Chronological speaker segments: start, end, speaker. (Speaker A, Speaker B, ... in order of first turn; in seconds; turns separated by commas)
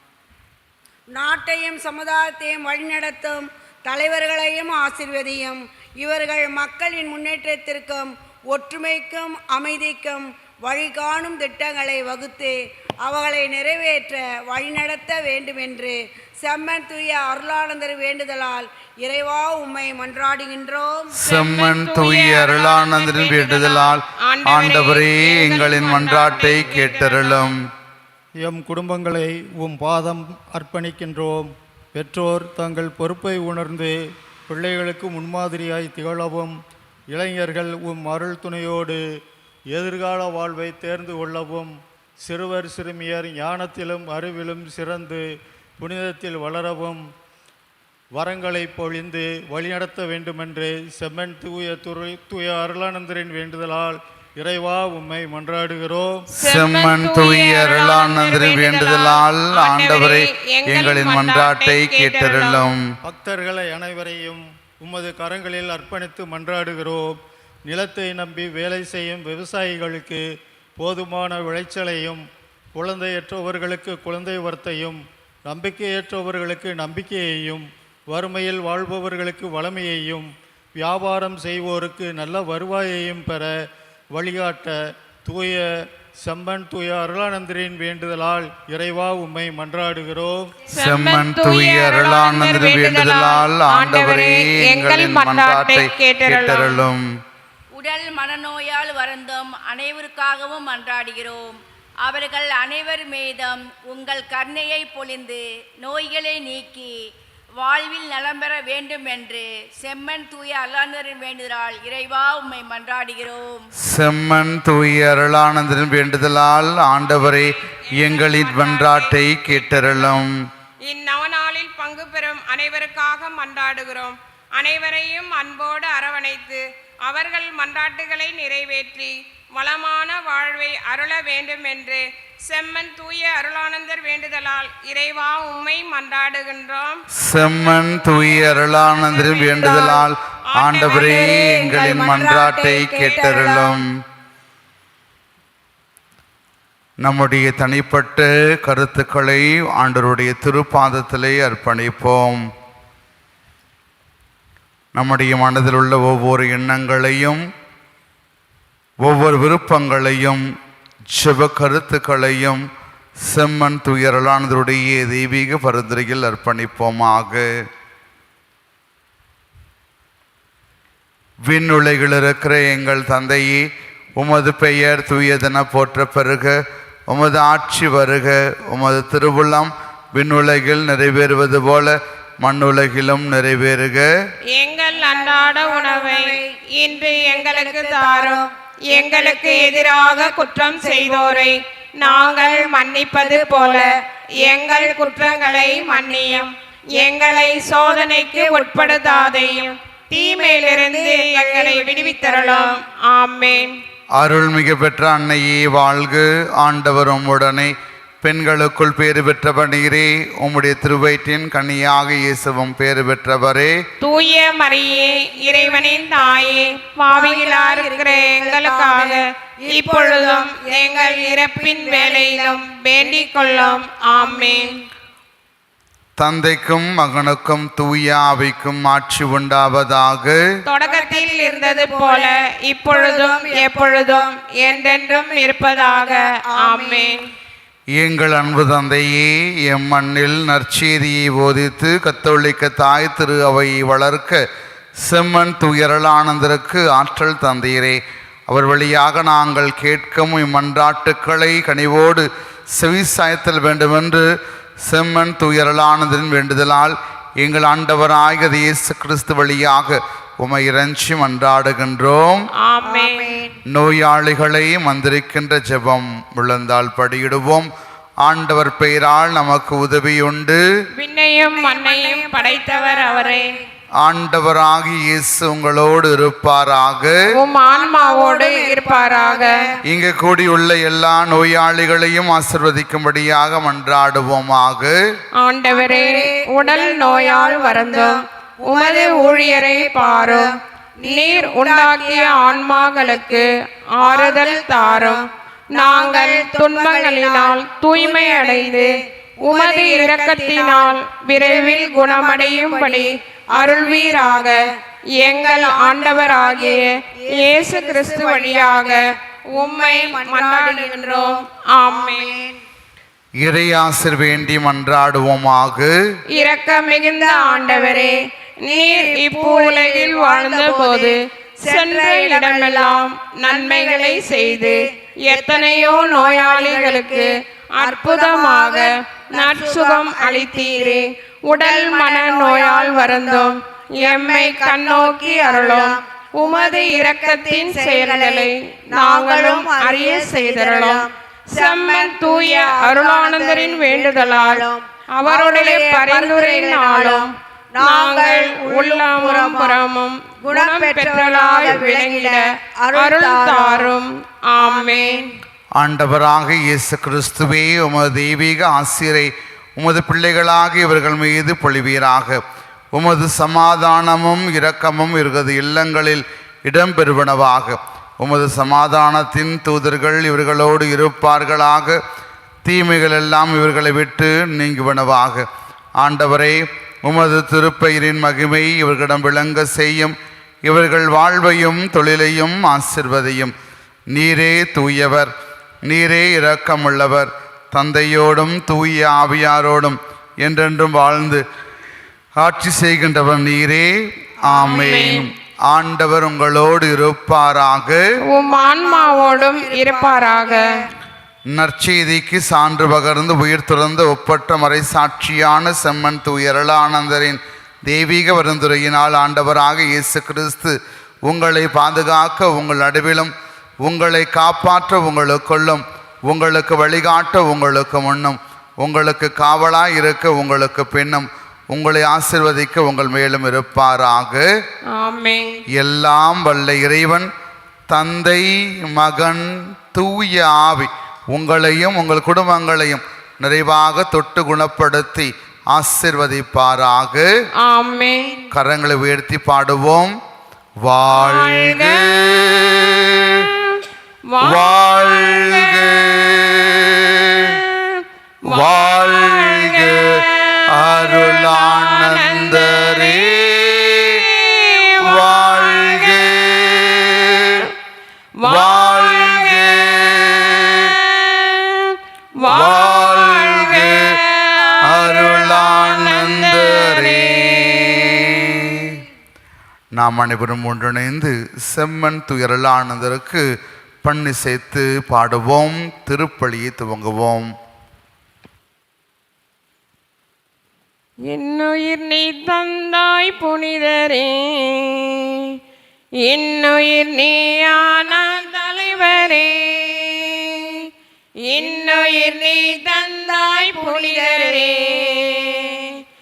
Speaker A: 1.1-21.1, Speaker B: 21.2-27.6, Speaker C: 21.2-27.5, Speaker D: 28.4-34.0, Speaker D: 34.5-36.5, Speaker D: 37.1-39.0, Speaker D: 39.7-45.2, Speaker D: 45.8-47.0, Speaker D: 48.1-56.1, Speaker C: 56.4-62.6, Speaker B: 56.4-62.8, Speaker D: 63.0-67.2, Speaker D: 67.7-70.2, Speaker D: 70.8-72.2, Speaker D: 72.8-83.5, Speaker D: 84.1-85.7, Speaker D: 86.2-90.5, Speaker C: 90.7-96.8, Speaker B: 90.8-97.1, Speaker E: 97.7-106.9, Speaker E: 107.6-113.7, Speaker B: 113.8-120.3, Speaker C: 117.9-120.0, Speaker C: 120.8-137.0, Speaker B: 137.1-143.9, Speaker C: 138.7-142.3, Speaker A: 140.9-143.8, Speaker B: 147.0-152.4, Speaker B: 154.9-157.4, Speaker B: 159.0-160.4, Speaker B: 161.1-162.6, Speaker B: 163.2-167.5, Speaker B: 171.5-173.7, Speaker B: 174.2-184.1, Speaker C: 184.5-203.7, Speaker A: 184.9-191.3, Speaker A: 192.1-193.9, Speaker A: 194.7-196.4, Speaker A: 197.6-199.5, Speaker A: 200.1-202.8, Speaker B: 204.2-213.7, Speaker C: 214.0-224.7, Speaker A: 215.1-216.5, Speaker A: 217.1-224.8, Speaker B: 226.2-230.4, Speaker C: 230.7-237.2, Speaker A: 230.8-232.4, Speaker A: 232.9-234.3, Speaker A: 235.8-237.2, Speaker B: 238.0-244.4, Speaker B: 245.0-254.3, Speaker B: 254.8-262.4, Speaker C: 262.6-263.3, Speaker A: 262.9-263.6, Speaker B: 263.6-267.7, Speaker B: 268.2-270.6, Speaker C: 271.0-273.5, Speaker A: 271.4-273.6, Speaker B: 274.0-277.2, Speaker C: 277.3-279.6, Speaker A: 277.6-279.8, Speaker B: 279.8-285.0, Speaker C: 285.4-304.6, Speaker A: 285.7-293.4, Speaker A: 294.0-298.9, Speaker A: 299.4-304.7, Speaker C: 305.2-309.0, Speaker A: 305.2-309.0, Speaker C: 309.5-312.3, Speaker A: 309.6-312.6, Speaker B: 313.4-315.9, Speaker C: 316.3-355.3, Speaker A: 317.2-318.2, Speaker A: 318.7-327.3, Speaker A: 327.8-349.8, Speaker A: 350.4-353.9, Speaker A: 354.6-355.2, Speaker B: 355.8-362.4, Speaker B: 362.9-372.0, Speaker B: 372.6-375.5, Speaker B: 376.0-383.5, Speaker B: 384.1-385.3, Speaker B: 385.8-391.4, Speaker B: 392.4-398.0, Speaker C: 394.5-395.2, Speaker C: 398.3-400.6, Speaker A: 398.4-400.8, Speaker B: 401.5-424.5, Speaker C: 424.9-425.6, Speaker B: 425.7-427.3, Speaker B: 427.9-437.3, Speaker C: 437.6-438.5, Speaker B: 438.5-440.1, Speaker B: 440.8-443.5, Speaker C: 441.1-442.1, Speaker C: 443.3-445.9, Speaker B: 444.4-447.6, Speaker C: 447.4-453.3, Speaker B: 448.4-454.3, Speaker C: 454.1-456.2, Speaker B: 455.0-457.7, Speaker C: 458.4-468.5, Speaker B: 458.4-461.0, Speaker B: 462.4-464.1, Speaker B: 464.9-469.0, Speaker B: 469.9-473.5, Speaker B: 474.0-477.5, Speaker C: 481.3-485.6, Speaker C: 486.2-490.9, Speaker C: 491.5-496.0